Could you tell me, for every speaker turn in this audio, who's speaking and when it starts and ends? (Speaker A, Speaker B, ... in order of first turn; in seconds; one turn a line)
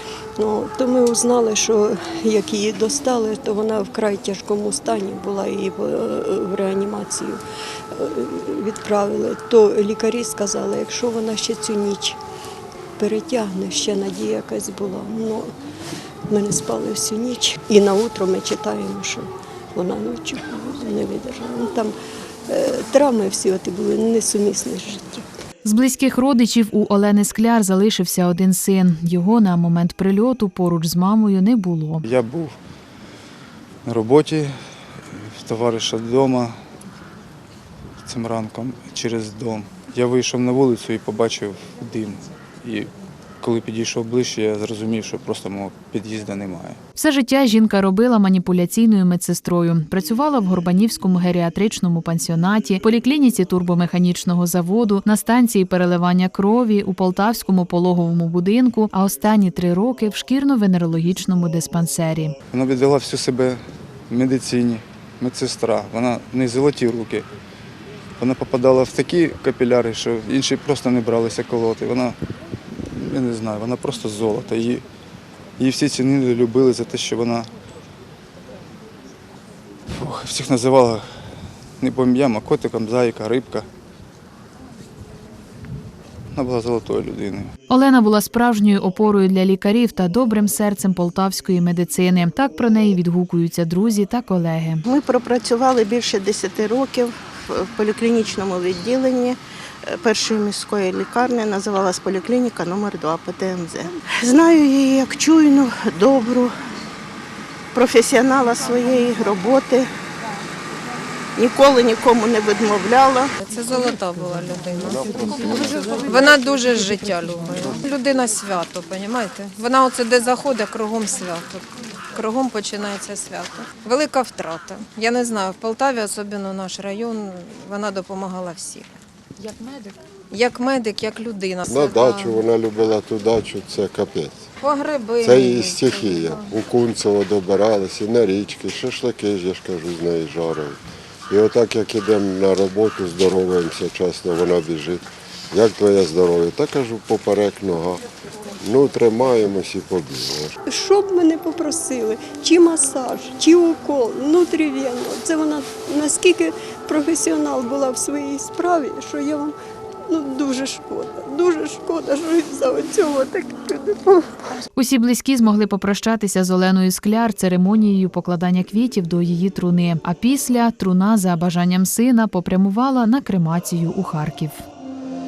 Speaker A: 0.4-7.4
Speaker A: 7.9-12.2
Speaker A: 13.0-15.5
Speaker A: 16.3-21.9
Speaker A: 22.5-25.2
Speaker B: 25.6-32.1
Speaker C: 32.0-32.5
Speaker C: 33.9-34.5
Speaker C: 35.1-36.6
Speaker C: 38.0-42.9
Speaker C: 43.4-46.8
Speaker B: 47.0-62.4
Speaker C: 62.5-63.6
Speaker C: 64.1-67.3
Speaker C: 68.2-72.2
Speaker C: 72.8-74.8
Speaker C: 75.6-77.5
Speaker C: 79.9-81.0
Speaker C: 81.8-83.7
Speaker C: 86.3-87.5
Speaker B: 87.7-94.8
Speaker D: 94.9-106.5
Speaker D: 107.7-109.9
Speaker D: 111.4-113.3
Speaker E: 113.4-128.9
Speaker F: 115.4-115.9
Speaker E: 129.5-132.4
Speaker F: 131.7-134.5
Speaker E: 134.6-136.6
Speaker F: 135.2-148.0
Speaker F: 148.6-150.6
Speaker A: 150.7-159.6
Speaker A: 160.1-164.5
Speaker B: 164.8-174.7